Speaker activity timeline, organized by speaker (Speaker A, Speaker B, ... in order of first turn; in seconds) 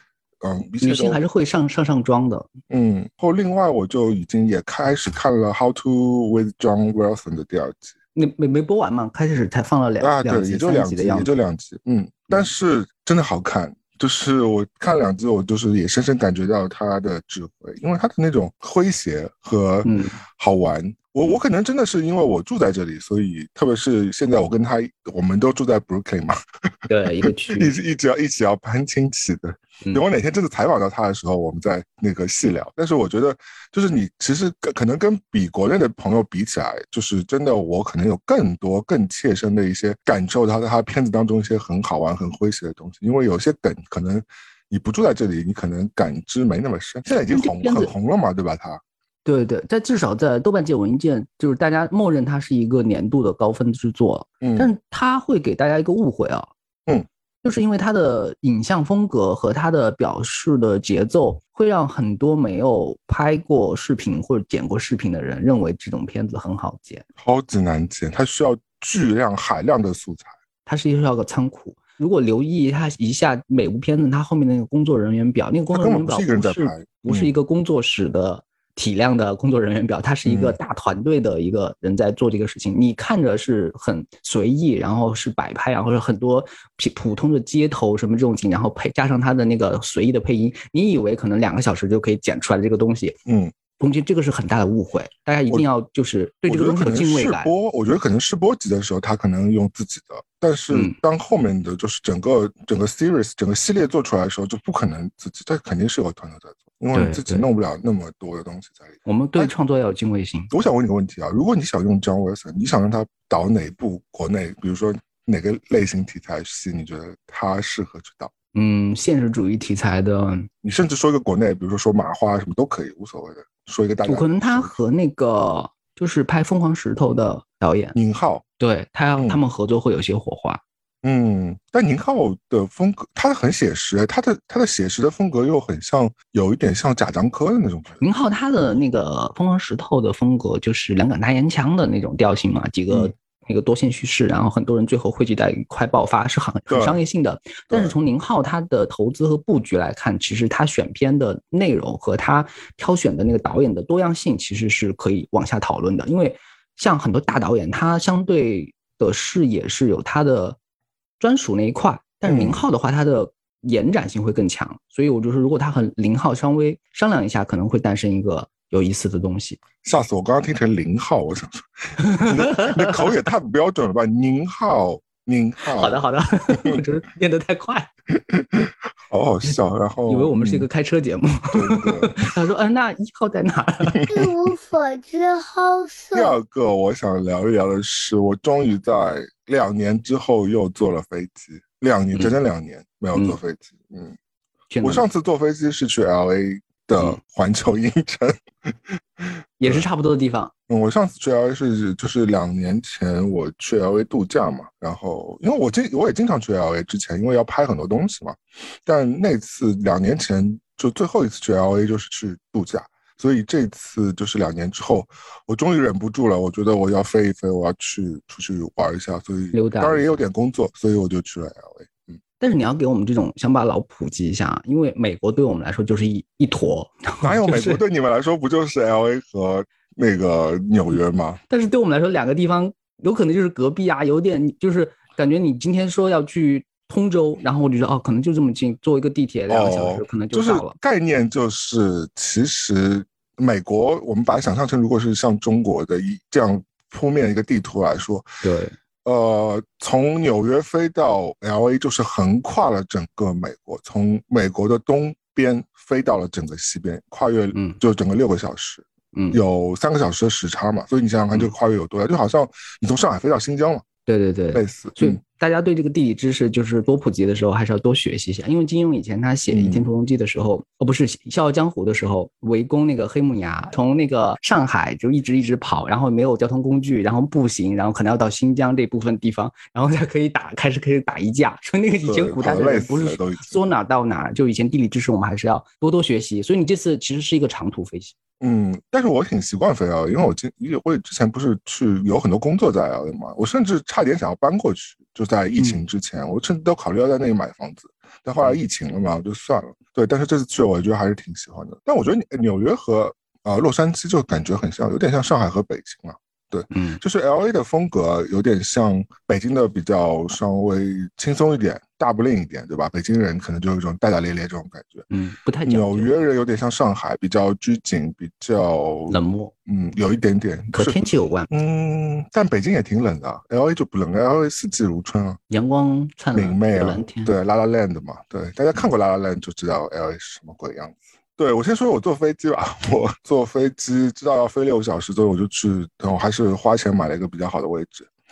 Speaker A: 0.4-1.2, 2.7-7.9, 10.0-26.4, 27.2-48.8, 54.4-54.7, 67.2-70.3, 75.7-77.3, 80.2-80.6, 93.2-93.5, 96.5-109.5, 110.5-118.3, 120.6-124.8, 127.9-128.4, 131.0-138.0, 146.7-147.0, 147.7-147.9, 162.2-162.6, 169.8-176.0, 176.5-176.8, 178.2-180.7, 181.5-182.3, 183.9-184.3, 186.1-194.1, 194.8-199.8, 200.7-222.2, 227.2-231.4, 239.5-248.3, 249.0-263.8, 264.5-265.2, 269.5-269.9, 282.0-283.6, 288.4-315.1, 315.6-319.1, 319.7-321.0, 321.5-325.4, 326.3-338.1
Speaker B: 0.8-2.5, 8.2-11.3, 19.8-20.2, 26.9-27.7, 47.3-47.9, 49.2-56.5, 57.4-67.0, 70.7-93.2, 93.8-97.5, 100.7-101.0, 106.9-107.4, 109.0-110.5, 118.5-120.5, 124.0-128.0, 128.6-130.6, 138.0-160.6, 161.2-169.6, 172.0-173.1, 175.7-177.9, 180.1-184.0, 194.7-195.1, 199.6-200.5, 219.5-220.1, 222.4-227.8, 231.5-240.7, 248.4-248.8, 257.5-257.8, 259.1-259.4, 264.1-288.1, 295.6-295.8, 306.7-307.0, 315.1-316.1, 319.1-319.5, 320.7-321.5, 325.5-327.3
Speaker C: 184.1-186.4